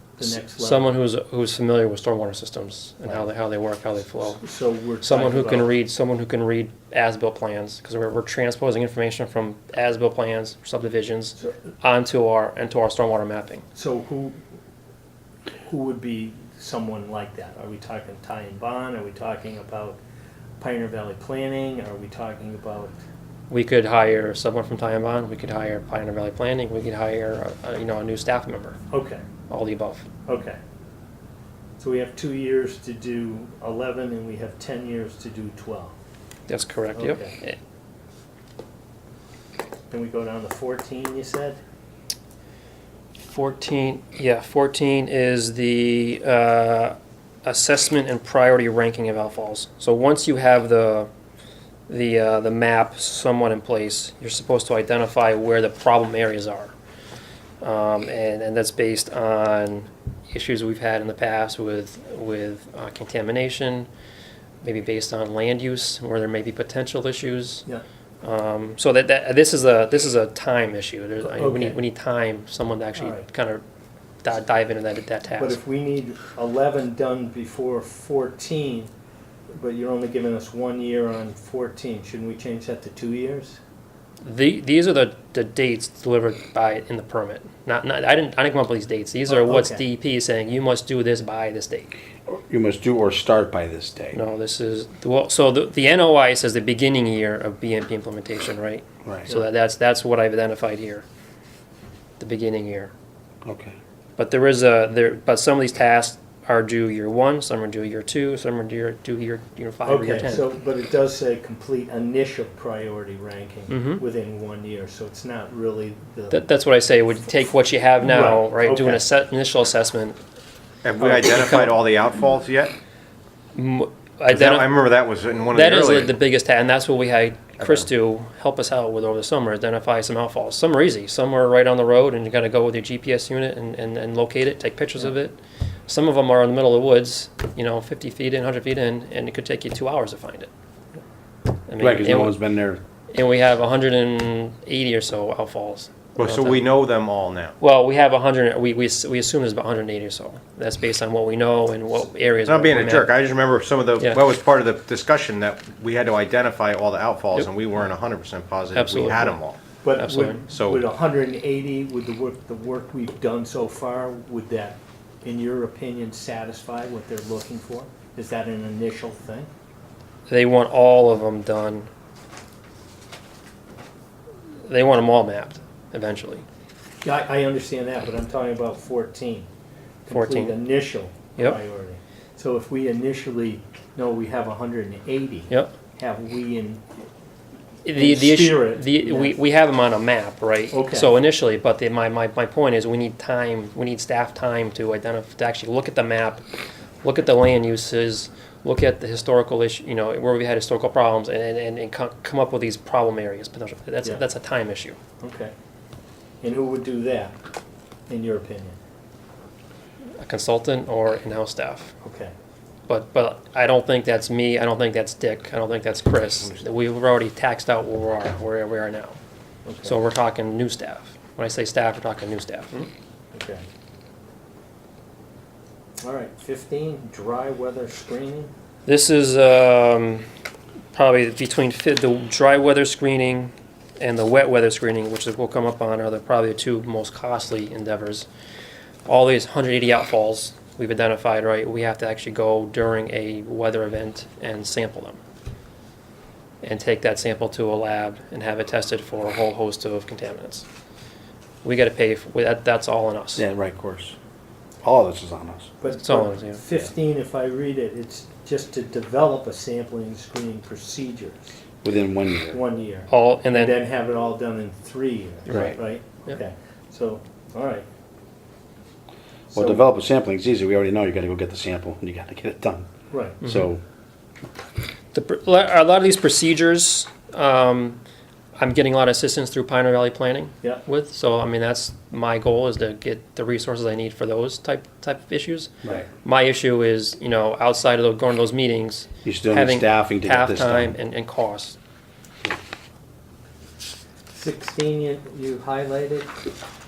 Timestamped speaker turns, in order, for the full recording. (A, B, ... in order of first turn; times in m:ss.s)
0:00.2-0:00.9 A
0:00.2-0:04.4 B
0:04.1-0:05.7 A
0:05.0-0:13.6 B
0:13.7-0:14.4 A
0:15.6-0:20.0 A
0:20.6-0:23.0 A
0:23.5-0:28.8 B
0:28.9-0:29.2 A
0:29.5-0:30.1 B
0:30.2-0:30.6 A
0:31.8-0:35.9 A
0:36.5-0:37.6 B
0:36.9-0:37.3 A
0:39.9-0:41.6 A
0:43.2-0:51.1 B
0:51.9-0:56.7 B
0:57.6-1:03.9 B
1:04.6-1:07.6 B
1:08.2-1:13.6 B
1:11.2-1:11.8 A
1:12.9-1:13.2 A
1:14.2-1:15.6 B
1:15.4-1:18.9 A
1:19.5-1:23.6 A
1:24.2-1:31.9 B
1:29.3-1:29.8 A
1:32.2-1:34.2 C
1:34.1-1:41.0 B
1:42.2-1:42.9 B
1:43.4-1:43.8 C
1:44.2-1:50.5 B
1:49.8-1:56.4 A
1:53.7-1:54.0 B
1:56.3-2:00.2 B
1:58.0-1:59.0 A
2:00.8-2:02.7 D
2:01.0-2:01.8 B
2:03.5-2:04.8 B
2:04.3-2:06.1 D
2:05.5-2:20.5 B
2:07.6-2:07.8 D
2:21.7-2:22.4 B
2:21.8-2:22.8 C
2:23.1-2:26.6 B
2:26.2-2:27.6 D
2:27.6-2:33.1 B
2:32.4-2:39.6 D
2:38.7-2:39.4 B
2:39.8-2:49.5 A
2:40.0-2:40.4 B
2:40.5-2:40.8 D
2:50.3-2:51.9 B
2:54.6-2:56.4 B
2:57.0-2:59.5 A
3:00.0-3:06.8 A
3:00.1-3:00.6 B
3:07.8-3:16.4 B
3:07.9-3:09.3 A
3:10.7-3:11.1 A
3:17.0-3:25.0 B
3:25.2-3:25.5 A
3:26.4-3:27.4 A
3:28.1-3:28.8 A
3:30.2-3:31.9 B
3:32.0-3:32.3 A
3:32.9-3:39.2 B
3:39.6-3:40.0 A
3:39.8-3:42.9 B
3:43.3-3:43.6 A
3:46.0-3:48.5 A
3:48.8-3:50.2 B
3:50.9-3:58.3 B
3:59.0-4:05.2 B
4:06.6-4:10.6 B
4:11.6-4:13.4 B
4:13.4-4:14.2 C
4:14.8-4:15.7 C
4:15.8-4:21.6 A
4:15.9-4:16.8 B
4:21.8-4:22.6 C
4:22.5-4:27.8 A
4:23.1-4:23.8 B
4:25.5-4:25.8 C
4:29.5-4:29.8 A
4:29.5-4:32.9 C
4:33.1-4:33.4 A
4:33.4-4:33.8 C
4:35.1-4:38.0 B
4:38.6-4:51.8 B
4:49.2-4:50.9 C
4:54.3-4:56.3 A